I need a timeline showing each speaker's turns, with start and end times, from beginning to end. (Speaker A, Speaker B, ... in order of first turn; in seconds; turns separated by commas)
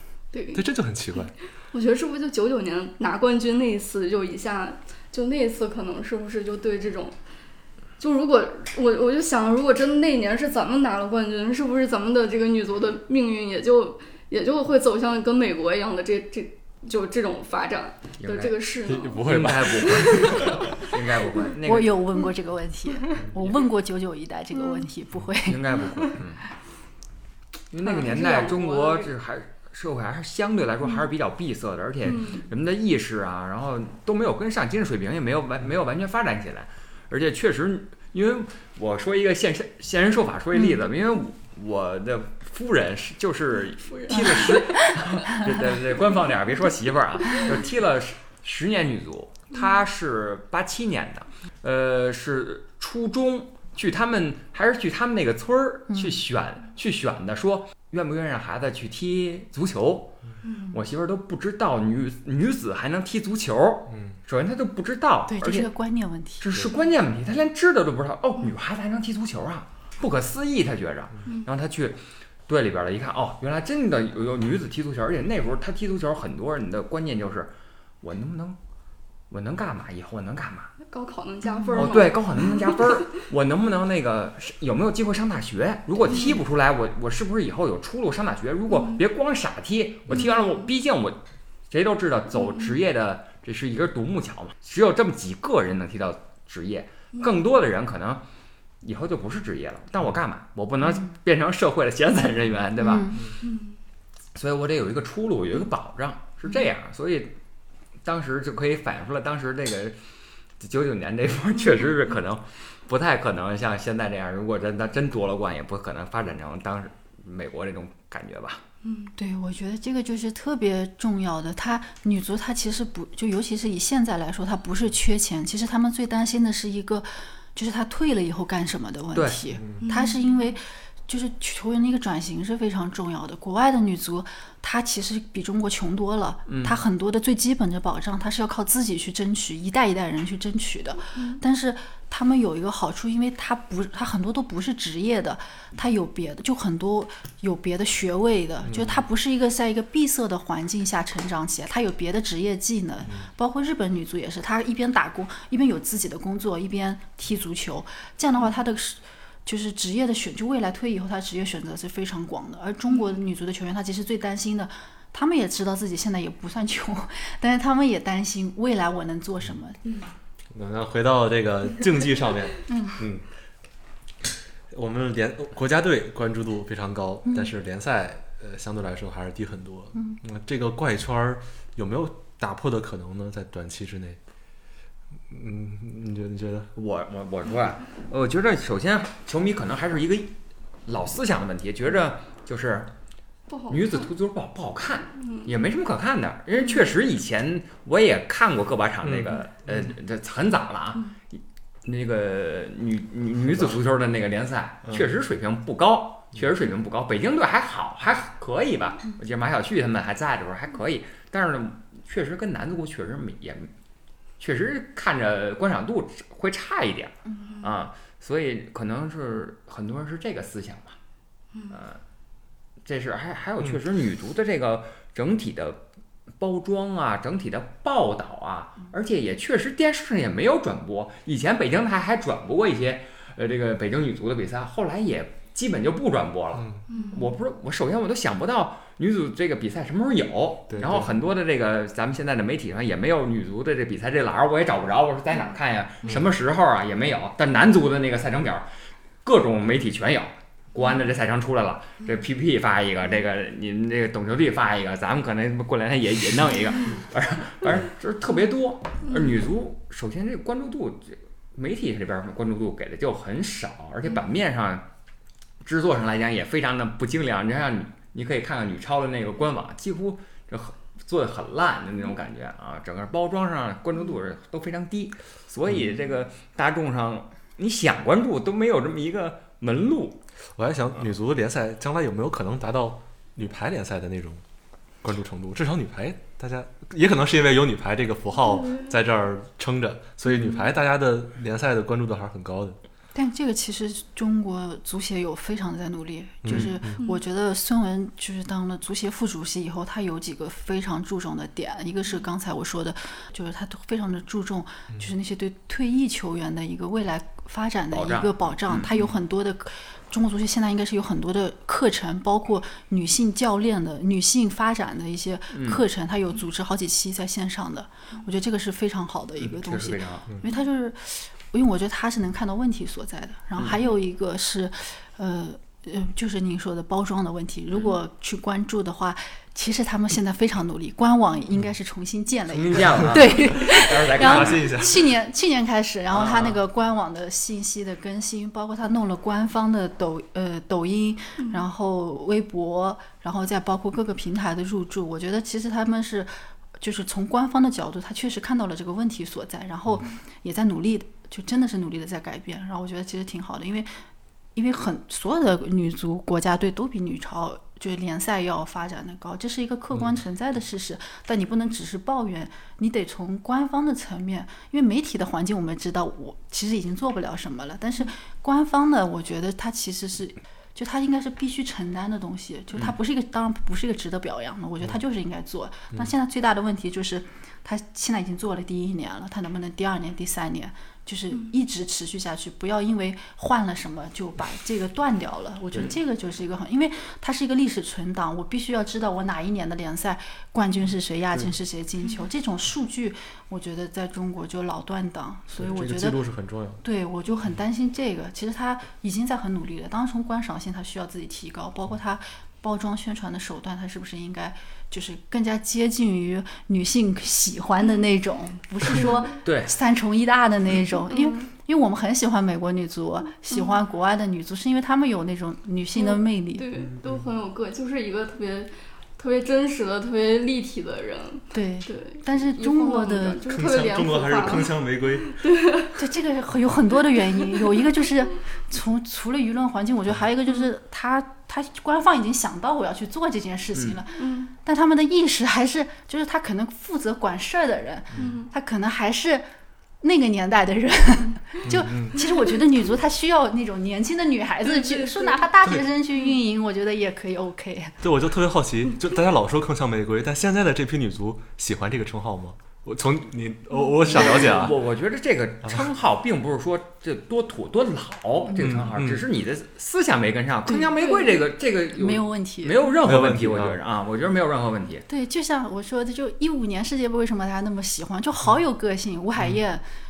Speaker A: 0.3-0.7, Speaker B: 0.5-1.3, Speaker A: 1.7-7.2, Speaker A: 8.0-20.5, Speaker C: 18.2-18.6, Speaker B: 18.8-20.6, Speaker C: 19.2-22.0, Speaker D: 21.6-26.1, Speaker A: 24.6-24.9, Speaker C: 25.4-26.4, Speaker C: 27.7-60.2, Speaker A: 27.8-29.1, Speaker A: 32.0-32.5, Speaker A: 43.9-45.0, Speaker D: 44.1-44.9, Speaker D: 55.9-56.2, Speaker A: 60.5-60.8, Speaker C: 60.7-65.7, Speaker B: 63.9-64.2, Speaker D: 65.3-66.5, Speaker C: 66.4-78.6, Speaker C: 79.3-80.7, Speaker A: 80.9-82.8, Speaker C: 81.8-98.2, Speaker A: 86.1-86.4, Speaker A: 88.7-89.0, Speaker A: 90.1-90.5, Speaker C: 98.8-103.2, Speaker D: 102.8-103.3, Speaker A: 103.4-103.8, Speaker C: 104.3-107.4, Speaker C: 108.0-110.0, Speaker C: 110.6-118.6, Speaker A: 118.8-119.1, Speaker D: 119.2-169.8, Speaker C: 129.1-129.4, Speaker B: 129.6-129.8, Speaker A: 129.8-130.3, Speaker C: 136.5-136.8, Speaker B: 148.6-149.1, Speaker A: 162.9-163.2, Speaker B: 170.5-173.3, Speaker D: 172.7-173.0, Speaker B: 174.7-184.2, Speaker D: 177.3-177.5, Speaker B: 185.3-186.7, Speaker C: 186.8-190.3, Speaker C: 190.9-192.9, Speaker A: 193.5-194.1, Speaker C: 193.7-213.7, Speaker A: 195.2-195.5, Speaker B: 199.0-199.9, Speaker C: 214.4-221.0, Speaker C: 221.7-222.0, Speaker C: 222.8-225.8, Speaker C: 226.4-248.7, Speaker B: 236.6-236.8, Speaker A: 236.9-237.3, Speaker B: 240.7-241.1, Speaker C: 249.2-264.9, Speaker C: 265.6-280.2, Speaker B: 280.6-284.4, Speaker B: 285.0-292.8, Speaker A: 288.4-288.9, Speaker D: 293.1-353.9, Speaker B: 296.4-297.0, Speaker C: 307.9-308.9, Speaker C: 315.5-315.8, Speaker C: 319.4-320.3, Speaker C: 323.6-323.8, Speaker C: 332.5-334.7, Speaker B: 334.1-335.1, Speaker C: 336.1-336.6, Speaker A: 341.4-341.6, Speaker D: 354.6-396.2, Speaker B: 395.6-396.8, Speaker D: 396.8-416.7, Speaker A: 408.9-409.2, Speaker C: 409.4-409.8, Speaker A: 411.1-411.5, Speaker A: 413.5-413.8, Speaker A: 415.9-426.0, Speaker B: 416.8-417.2, Speaker D: 421.5-423.5, Speaker B: 423.5-425.4, Speaker D: 426.0-439.5, Speaker C: 433.7-434.0, Speaker A: 434.2-434.5, Speaker A: 438.2-438.5, Speaker D: 440.0-448.0, Speaker B: 441.7-442.2, Speaker A: 442.2-442.5, Speaker A: 444.6-445.5, Speaker B: 448.0-454.8, Speaker C: 454.1-465.1, Speaker B: 458.6-459.3, Speaker D: 460.7-461.4, Speaker A: 461.0-461.4, Speaker D: 461.9-462.9, Speaker B: 463.0-463.8, Speaker D: 465.1-469.8